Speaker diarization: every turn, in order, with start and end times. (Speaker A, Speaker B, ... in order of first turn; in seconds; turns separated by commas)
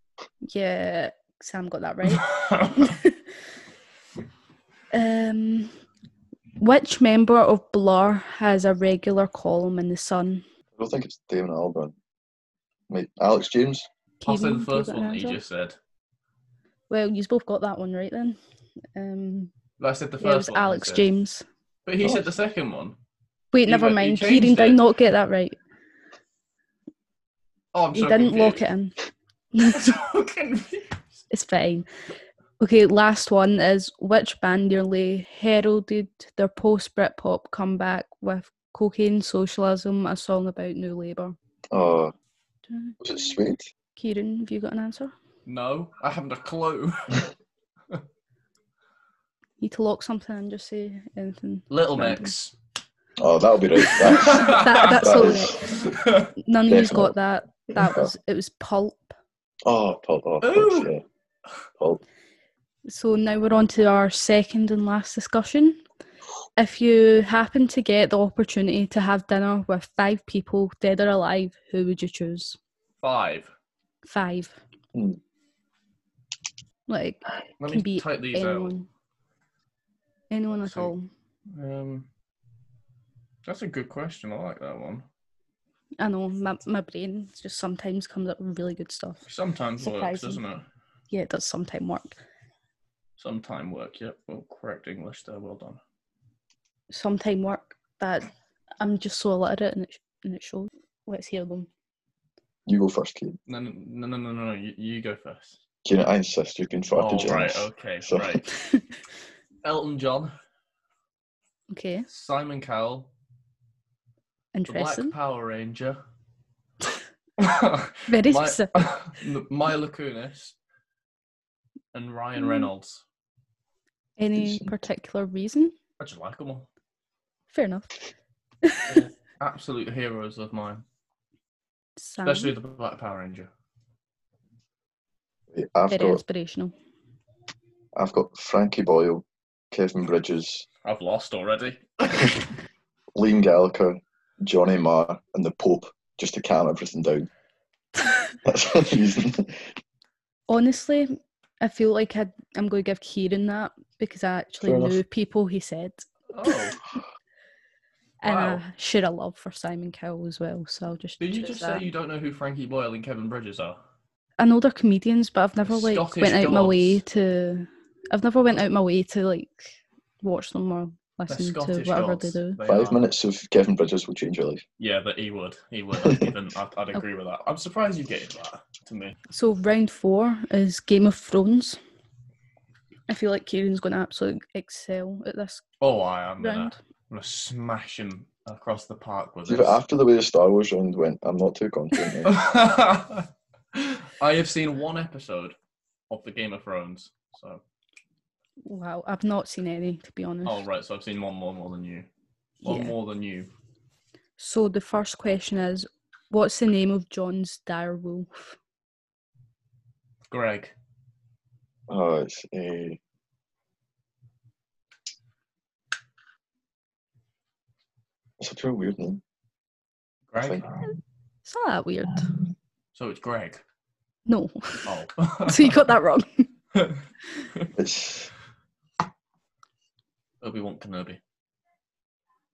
Speaker A: 0.4-3.2, Speaker B: 2.1-3.0, Speaker A: 4.9-5.7, Speaker A: 6.6-10.4, Speaker C: 10.8-11.9, Speaker C: 12.9-13.9, Speaker A: 14.2-15.4, Speaker B: 14.2-15.8, Speaker A: 16.9-18.4, Speaker A: 18.9-19.5, Speaker B: 19.8-21.1, Speaker A: 20.2-21.4, Speaker B: 21.9-23.0, Speaker C: 22.0-22.3, Speaker A: 23.5-25.6, Speaker B: 23.6-24.8, Speaker B: 27.7-28.6, Speaker A: 27.9-29.0, Speaker A: 29.5-29.9, Speaker B: 29.7-31.0, Speaker A: 31.3-31.9, Speaker A: 32.6-41.4, Speaker C: 41.7-42.1, Speaker A: 42.7-43.0, Speaker C: 43.0-43.7, Speaker A: 44.0-45.1, Speaker B: 45.5-47.3, Speaker A: 49.6-52.3, Speaker B: 51.7-52.5, Speaker C: 53.2-55.6, Speaker A: 53.9-55.7, Speaker B: 53.9-56.3, Speaker A: 56.4-59.1, Speaker C: 56.7-57.1, Speaker C: 57.8-58.1, Speaker C: 59.6-61.0, Speaker B: 60.4-60.9, Speaker A: 62.9-65.8, Speaker A: 66.6-72.6, Speaker B: 73.0-73.5, Speaker A: 74.0-74.6, Speaker C: 74.9-75.2, Speaker A: 76.9-78.9, Speaker B: 77.6-78.8, Speaker A: 80.3-81.1, Speaker B: 80.5-80.9, Speaker B: 81.5-82.1, Speaker B: 83.4-85.0, Speaker A: 86.0-89.2, Speaker B: 89.3-90.6, Speaker A: 89.8-90.4, Speaker A: 91.1-92.2, Speaker B: 93.2-95.8, Speaker A: 96.9-101.7, Speaker C: 102.7-103.4, Speaker B: 103.5-105.6, Speaker C: 105.8-108.4, Speaker B: 107.0-108.4, Speaker A: 108.5-108.9, Speaker B: 109.6-110.3, Speaker A: 111.7-112.1, Speaker B: 112.1-113.1, Speaker A: 114.5-115.1, Speaker B: 114.7-116.0, Speaker B: 117.4-120.5, Speaker A: 118.1-118.9, Speaker B: 121.9-123.0, Speaker A: 122.4-122.7, Speaker A: 124.2-125.8, Speaker C: 124.3-124.8, Speaker B: 126.0-126.7, Speaker A: 127.5-127.9, Speaker A: 128.6-129.0, Speaker B: 128.9-130.8, Speaker A: 132.0-132.5, Speaker B: 132.2-133.5, Speaker C: 135.5-136.2, Speaker A: 135.9-136.7, Speaker C: 138.0-140.6, Speaker B: 140.8-142.5, Speaker C: 143.1-147.3, Speaker C: 148.4-149.7, Speaker A: 150.5-156.7, Speaker C: 154.6-155.0, Speaker B: 156.3-156.8, Speaker A: 158.2-161.9, Speaker B: 158.2-158.6, Speaker B: 161.2-163.8, Speaker A: 164.4-169.6, Speaker B: 165.7-167.0, Speaker A: 170.2-172.6, Speaker B: 171.3-173.0, Speaker C: 172.7-174.6, Speaker B: 174.8-179.1, Speaker C: 176.0-176.3, Speaker A: 179.3-181.8, Speaker A: 183.1-185.6, Speaker B: 185.8-189.8, Speaker A: 186.4-186.8, Speaker C: 189.5-192.3, Speaker B: 192.2-195.5, Speaker B: 196.1-197.6, Speaker A: 198.6-200.6, Speaker B: 200.4-202.1, Speaker A: 202.6-202.9, Speaker B: 202.6-203.5, Speaker A: 204.4-208.6, Speaker B: 210.3-210.7, Speaker C: 211.9-213.0, Speaker C: 218.4-219.2, Speaker B: 220.3-220.8, Speaker A: 221.4-222.3, Speaker B: 222.9-223.6, Speaker A: 224.3-224.9, Speaker B: 224.9-225.8, Speaker A: 225.5-226.5, Speaker B: 226.8-227.0, Speaker C: 227.8-228.3, Speaker B: 230.4-231.2